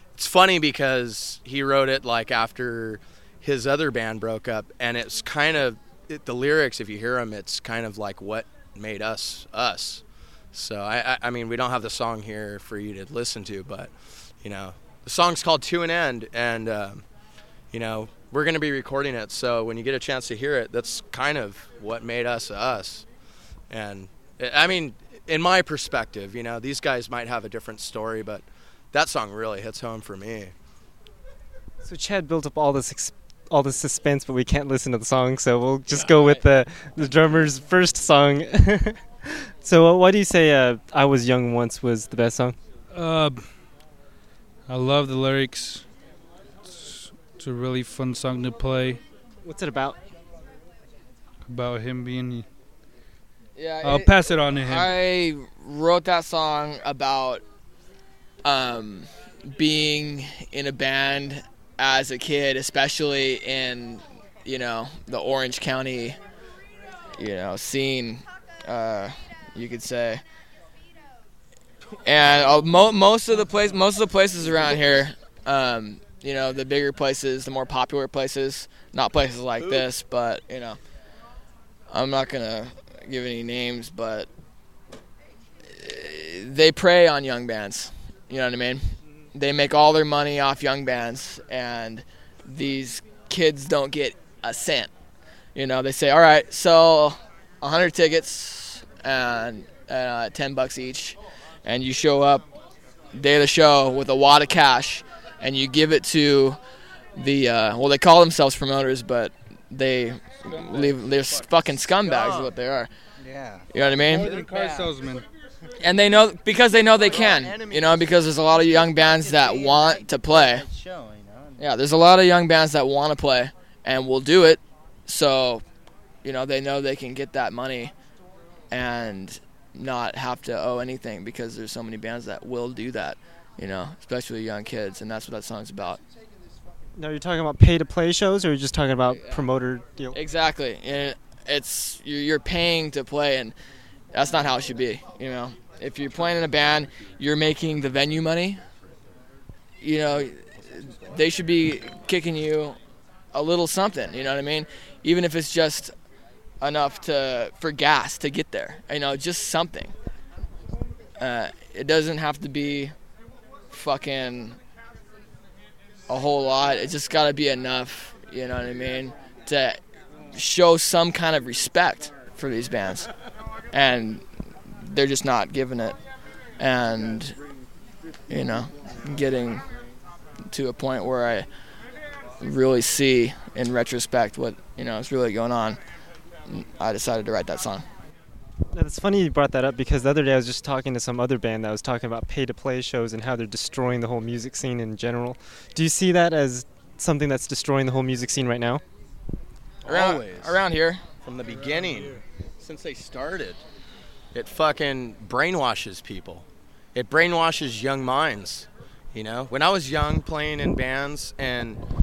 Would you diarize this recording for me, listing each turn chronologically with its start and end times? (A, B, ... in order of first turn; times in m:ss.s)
0:00.2-0:10.0 A
0:10.5-0:13.9 A
0:14.4-0:17.0 A
0:17.7-0:23.0 A
0:23.7-0:30.5 A
0:31.8-0:39.0 B
0:39.6-0:42.6 B
0:42.9-0:43.4 C
0:44.7-0:45.8 C
0:46.7-0:49.0 C
0:49.4-0:50.0 B
0:51.5-0:52.4 C
0:53.6-0:57.4 D
0:53.8-0:54.9 C
0:58.4-1:06.2 D
1:07.2-1:10.2 D
1:12.0-1:20.8 D
1:21.9-1:24.3 D
1:25.7-1:34.9 D
1:35.5-1:42.4 D
1:43.1-1:46.6 D
1:47.2-1:52.9 D
1:50.5-1:51.5 C
1:52.1-1:52.5 A
1:53.2-1:53.6 E
1:53.7-1:54.3 D
1:54.0-1:55.2 C
1:54.2-1:54.6 E
1:54.5-1:54.8 A
1:55.8-2:00.6 D
1:56.9-1:58.1 A
1:58.5-2:01.6 E
2:01.6-2:05.6 D
2:06.2-2:07.9 D
2:08.7-2:16.0 D
2:17.0-2:20.2 B
2:19.1-2:19.4 D
2:20.1-2:23.5 D
2:24.1-2:28.6 D
2:29.8-2:32.8 D
2:33.3-2:35.9 D
2:36.6-2:39.9 D
2:41.2-2:42.9 D
2:43.7-2:44.6 D
2:46.1-2:49.8 D
2:50.3-2:53.1 D
2:53.7-2:54.2 D
2:54.8-2:56.0 D
2:56.6-2:57.4 D
2:58.3-2:59.6 D
3:00.5-3:01.4 D
3:02.4-3:05.8 D
3:06.5-3:07.8 D
3:08.7-3:18.8 B
3:19.8-3:20.6 A
3:19.8-3:21.0 D
3:21.2-3:23.6 A
3:24.3-3:26.4 A
3:26.9-3:31.8 A